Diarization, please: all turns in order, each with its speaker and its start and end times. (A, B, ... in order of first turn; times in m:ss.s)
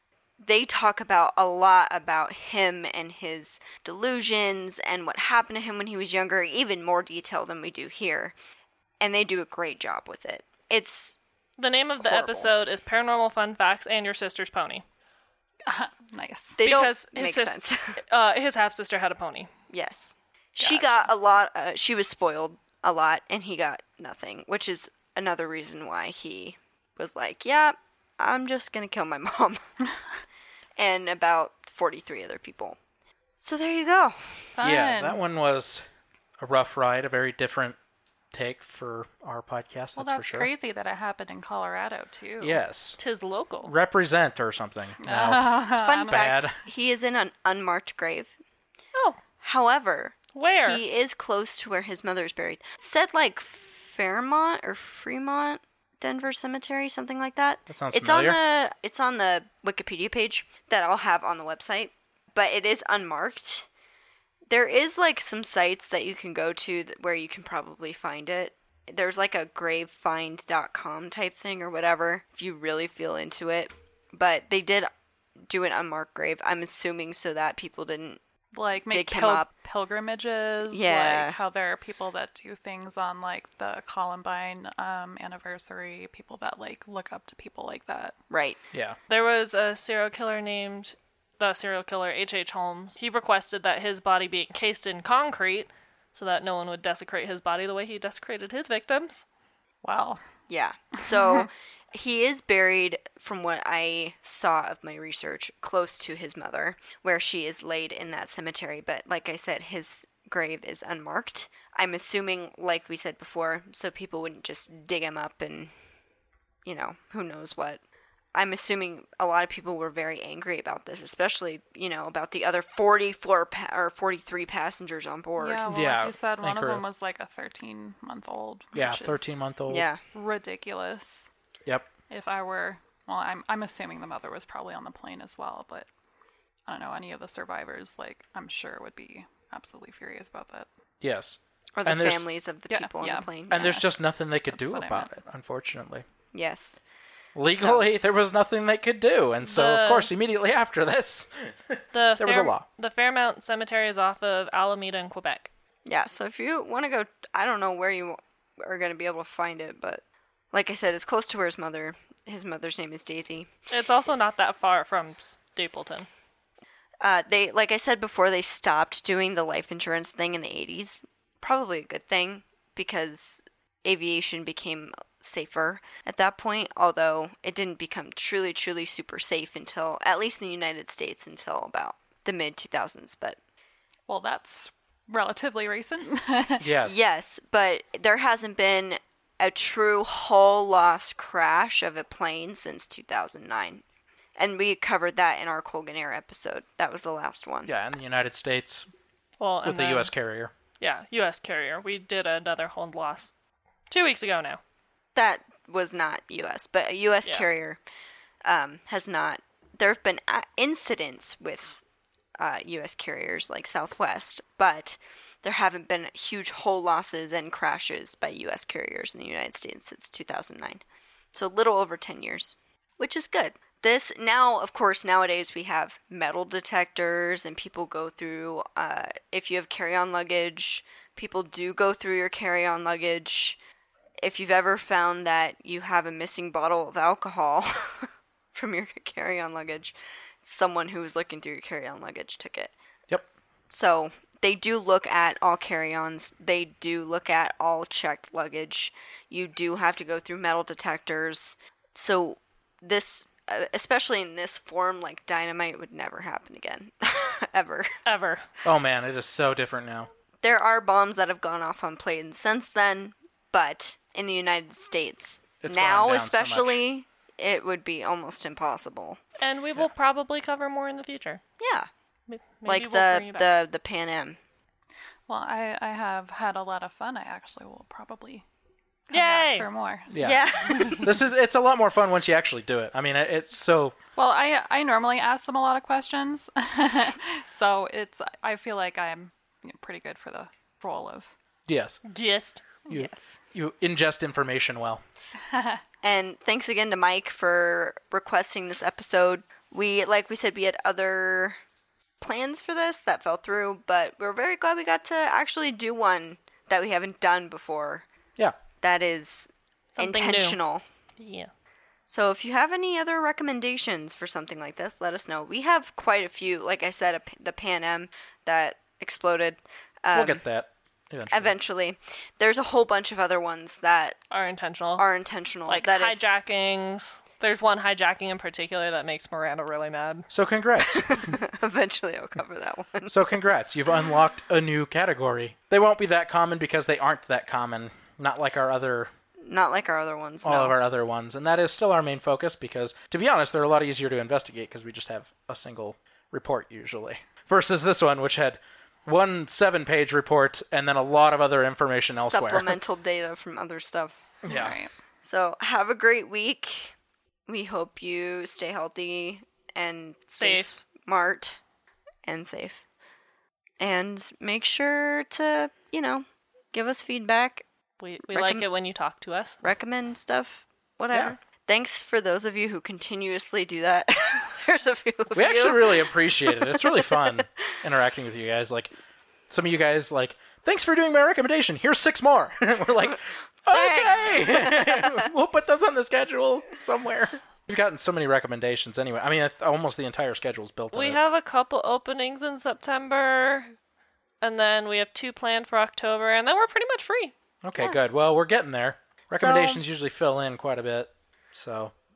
0:00.4-0:08.3 A
0:09.0-0:11.2 A
0:11.6-0:14.8 B
0:12.0-0:12.5 A
0:15.6-0:16.6 C
0:16.6-0:18.0 A
0:16.6-0:19.5 B
0:19.7-0:29.6 A
0:30.8-0:32.8 A
0:33.4-0:34.3 A
0:34.6-0:35.2 C
0:34.6-0:35.8 D
0:36.4-0:37.8 D
0:38.3-0:40.5 D
0:40.0-0:42.6 C
0:42.4-0:43.0 D
0:43.0-0:43.7 B
0:43.6-0:46.6 D
0:45.0-0:46.2 C
0:45.7-0:48.3 A
0:49.4-1:03.7 A
0:50.3-0:50.8 B
0:57.7-0:58.4 D
1:04.5-1:14.9 A
1:15.5-1:18.2 A
1:18.5-1:28.2 C
1:18.9-1:19.5 A
1:20.7-1:21.4 A
1:28.3-1:28.6 A
1:29.1-1:39.2 B
1:39.8-1:40.2 C
1:40.5-1:55.7 A
1:41.0-1:41.5 C
1:56.6-1:57.8 A
1:58.3-2:05.6 A
2:05.4-2:09.4 C
2:05.7-2:06.8 D
2:08.7-2:09.9 D
2:09.7-2:10.0 A
2:10.1-2:11.3 C
2:11.6-2:11.9 D
2:12.1-2:15.9 C
2:16.7-2:20.7 C
2:21.0-2:22.3 D
2:21.8-2:23.8 A
2:22.7-2:23.8 C
2:23.5-2:26.0 D
2:24.5-2:25.1 C
2:26.3-2:26.8 A
2:27.3-2:32.6 D
2:27.5-2:27.9 A
2:29.4-2:30.1 B
2:31.9-2:35.5 B
2:35.8-2:43.5 A
2:43.7-2:46.1 B
2:47.0-3:03.4 A
3:04.1-3:06.7 C
3:06.6-3:07.0 D
3:06.8-3:13.8 A
3:14.4-3:17.7 A
3:17.7-3:18.8 D
3:19.4-3:20.1 B
3:19.6-3:20.5 D
3:20.8-3:23.3 B
3:23.9-3:24.6 B
3:25.1-3:27.8 A
3:28.4-3:31.8 A
3:32.4-3:53.6 A
3:54.2-4:02.7 A
4:03.7-4:18.0 A
4:18.0-4:18.4 B
4:18.6-4:20.1 D
4:20.4-4:29.2 A
4:25.6-4:26.8 D
4:29.4-4:31.4 B
4:31.6-4:31.9 A
4:32.3-4:33.5 B
4:32.6-4:34.4 A
4:35.3-4:38.4 C
4:39.1-4:41.0 C
4:39.1-4:39.7 B
4:40.1-4:43.9 D
4:40.2-4:41.1 A
4:44.2-4:51.3 C
4:51.7-4:52.0 D
4:52.0-4:52.6 B
4:52.8-4:53.2 C
4:52.9-4:55.0 D
4:55.5-4:55.8 C
4:56.0-5:01.6 A
5:02.2-5:08.0 A
5:08.8-5:10.8 A
5:09.9-5:10.6 B
5:11.2-5:11.5 B
5:12.1-5:20.4 A
5:20.1-5:21.5 D
5:21.3-5:24.2 A
5:24.3-5:25.0 B
5:25.0-5:26.3 A
5:25.7-5:30.3 B
5:30.3-5:31.4 D
5:31.0-5:33.2 A
5:33.1-5:39.1 D
5:39.4-5:40.8 A
5:40.4-5:52.8 D
5:52.1-5:54.2 A
5:54.4-5:54.8 D
5:54.5-5:54.9 C
5:55.2-5:56.9 A
5:57.5-6:01.6 A
6:00.4-6:00.7 B
6:02.2-6:02.8 A
6:03.8-6:07.6 A
6:08.0-6:09.6 B
6:08.3-6:08.6 A
6:09.6-6:17.4 A
6:15.3-6:18.9 D
6:19.5-6:31.2 D
6:23.7-6:25.2 A
6:30.9-6:33.7 B
6:34.4-6:37.3 B
6:37.6-6:41.9 D
6:39.3-6:39.8 A